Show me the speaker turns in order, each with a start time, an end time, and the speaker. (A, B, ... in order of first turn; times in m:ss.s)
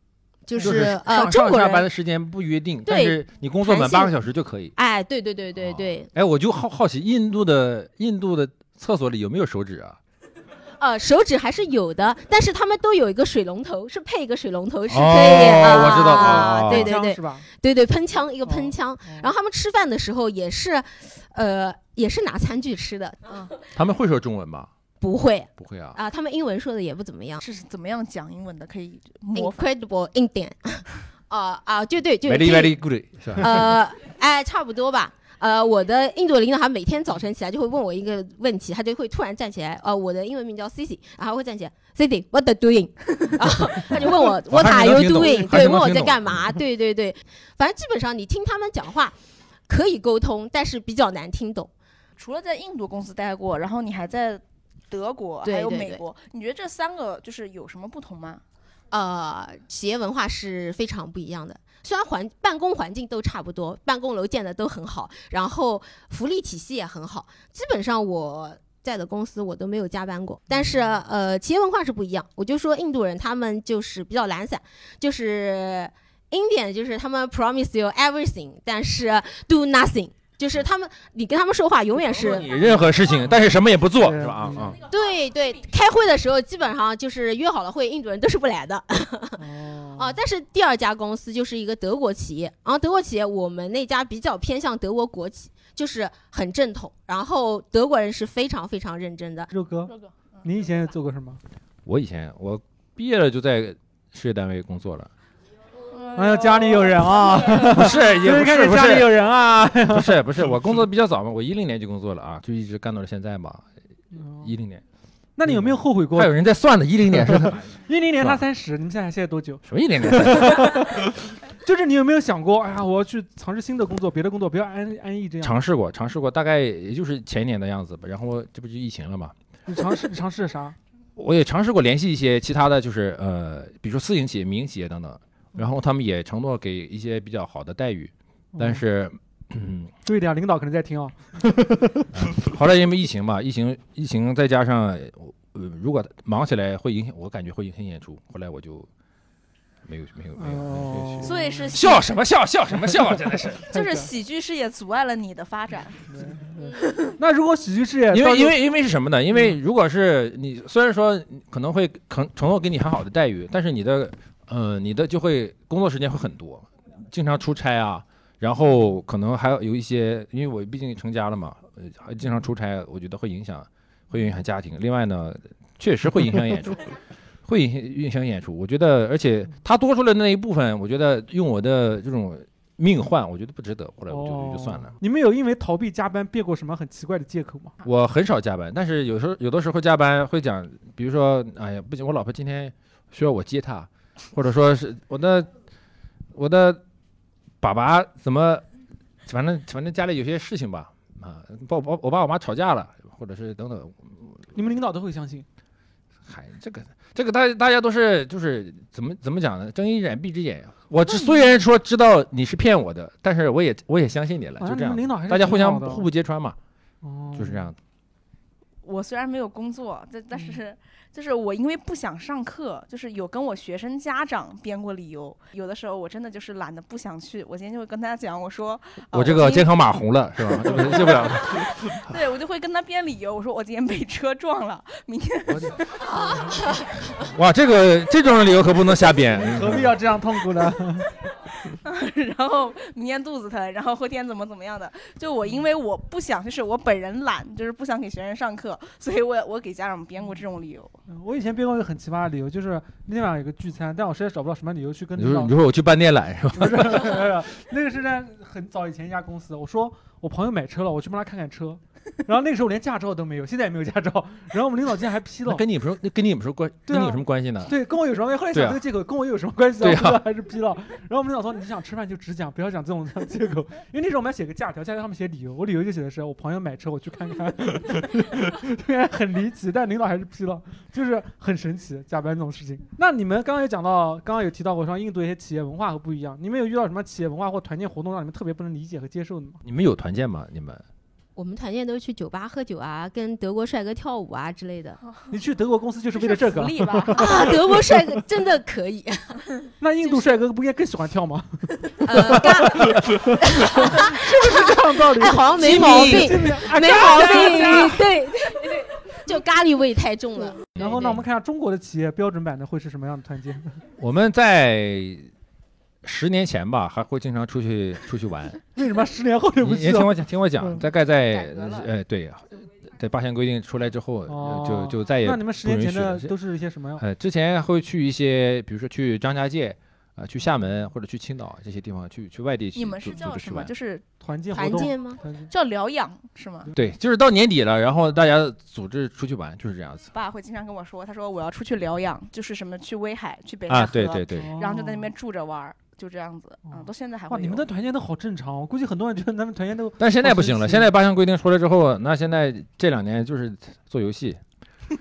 0:00.4-0:01.8 A
0:00.6-0:04.7 B
0:00.6-0:01.0 C
0:02.8-0:04.1 A
0:04.8-0:06.1 A
0:05.6-0:10.0 B
0:10.8-0:23.5 A
0:14.9-0:16.9 B
0:15.9-0:17.4 C
0:18.4-0:19.3 C
0:23.7-0:24.7 B
0:25.0-0:27.4 A
0:25.6-0:26.0 B
0:27.4-0:29.6 D
0:29.3-0:32.8 A
0:32.2-0:33.8 B
0:33.4-0:49.1 A
0:44.5-0:46.6 B
0:49.7-0:51.7 A
0:52.2-0:58.4 D
0:55.4-0:56.0 A
0:58.9-1:22.6 A
1:10.5-1:11.0 C
1:22.0-1:24.8 B
1:24.0-1:24.8 C
1:24.8-1:29.4 A
1:29.4-1:30.2 C
1:30.0-1:39.5 A
1:39.5-1:41.4 C
1:41.8-1:45.1 B
1:45.9-1:47.6 D
1:46.1-1:50.5 C
1:47.6-1:53.6 B
1:54.1-1:54.5 C
1:54.4-1:54.8 B
1:55.4-1:56.3 C
1:55.4-1:58.4 B
1:57.1-2:05.6 C
1:59.6-2:01.0 B
2:05.4-2:09.3 B
2:09.7-2:10.8 C
2:11.2-2:19.9 B
2:18.5-2:18.8 C
2:20.0-2:22.1 C
2:22.1-2:28.9 B
2:29.8-2:33.6 B
2:30.4-2:31.7 C
2:31.2-2:32.0 D
2:33.7-2:36.1 D
2:33.7-2:34.1 C
2:36.1-2:38.6 C
2:36.8-2:37.2 D
2:38.1-2:56.9 B
2:57.4-3:04.9 B
3:04.1-3:07.8 C
3:07.8-3:15.5 B
3:16.3-3:16.8 B
3:17.6-3:18.6 B
3:19.2-3:24.4 B
3:24.5-3:25.4 C
3:26.2-3:36.6 B
3:34.6-3:36.0 C
3:37.0-3:37.7 C
3:37.4-3:37.8 B
3:38.8-3:49.7 D
3:49.1-3:51.7 B
3:51.2-3:56.6 D
3:55.5-3:55.8 B
3:57.1-4:00.0 B
3:59.4-4:01.1 C
4:01.7-4:11.0 D
4:11.1-4:15.5 C
4:15.2-4:17.3 B
4:16.5-4:25.6 C
4:25.4-4:27.8 B
4:26.9-4:49.6 C
4:28.5-4:28.8 B
4:29.8-4:30.2 B
4:49.6-4:50.8 B
4:51.4-4:55.0 A
4:55.0-4:55.3 D
4:55.3-4:57.6 C
4:56.1-4:57.5 D
4:57.1-4:59.4 A
4:59.8-5:08.1 C
5:02.0-5:10.7 A
5:05.6-5:06.5 B
5:10.7-5:11.2 B
5:10.8-5:13.8 C
5:14.0-5:15.3 B
5:16.0-5:18.6 B
5:18.7-5:20.8 C
5:19.6-5:26.3 B
5:24.3-5:27.0 C
5:27.0-5:33.7 B
5:32.7-5:34.0 D
5:34.2-5:35.5 C
5:34.5-5:35.2 A
5:35.5-5:36.7 D
5:36.7-5:40.1 B
5:40.1-5:47.6 D
5:43.7-5:44.5 B
5:44.4-5:45.1 C
5:46.7-5:50.9 C
5:50.0-5:54.4 B